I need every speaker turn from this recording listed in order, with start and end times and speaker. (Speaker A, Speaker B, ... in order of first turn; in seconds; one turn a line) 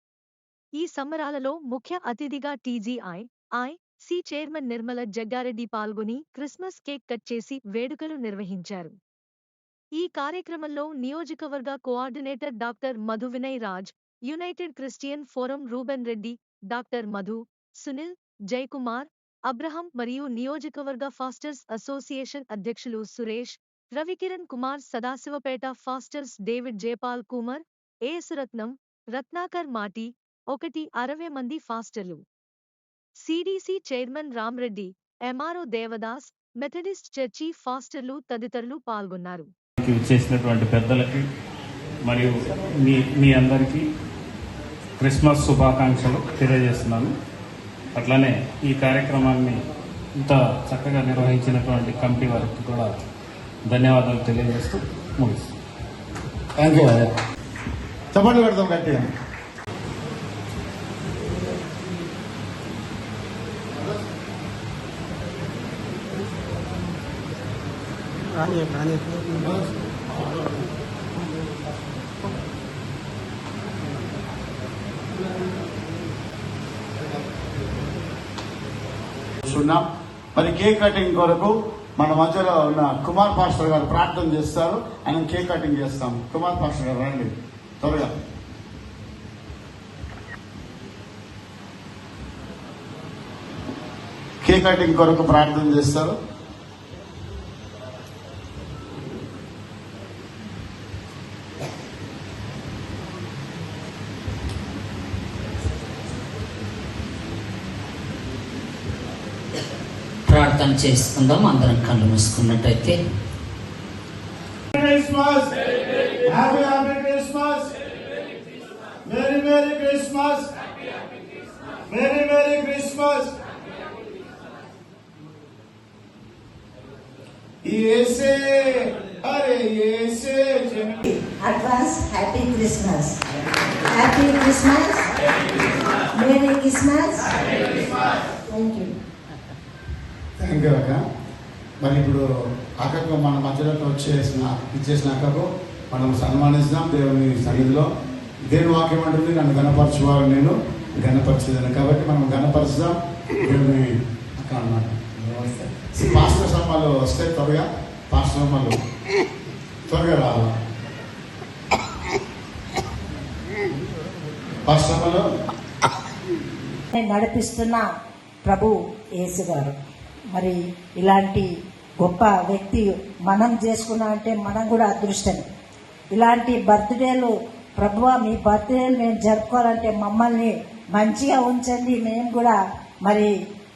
Speaker A: 0.8-8.9
Speaker A: 10.0-32.2
Speaker A: 33.2-39.5
Speaker B: 39.8-41.3
Speaker B: 42.0-43.9
Speaker B: 45.0-47.1
Speaker B: 48.0-49.6
Speaker B: 50.2-52.9
Speaker B: 53.7-55.5
Speaker C: 56.6-57.1
Speaker C: 58.1-59.1
Speaker C: 79.5-88.1
Speaker C: 94.4-96.2
Speaker D: 110.3-113.0
Speaker C: 114.8-115.6
Speaker C: 116.2-117.8
Speaker C: 119.1-120.5
Speaker C: 121.9-123.3
Speaker C: 127.6-131.0
Speaker E: 131.3-133.2
Speaker E: 133.9-135.1
Speaker E: 136.2-137.6
Speaker E: 138.5-138.9
Speaker C: 140.4-141.0
Speaker C: 141.8-142.2
Speaker C: 142.8-147.9
Speaker C: 148.5-158.8
Speaker C: 159.9-160.5
Speaker C: 164.7-165.3
Speaker E: 166.9-167.8
Speaker E: 168.4-169.8
Speaker E: 170.3-171.5
Speaker E: 172.0-175.4
Speaker E: 176.1-183.3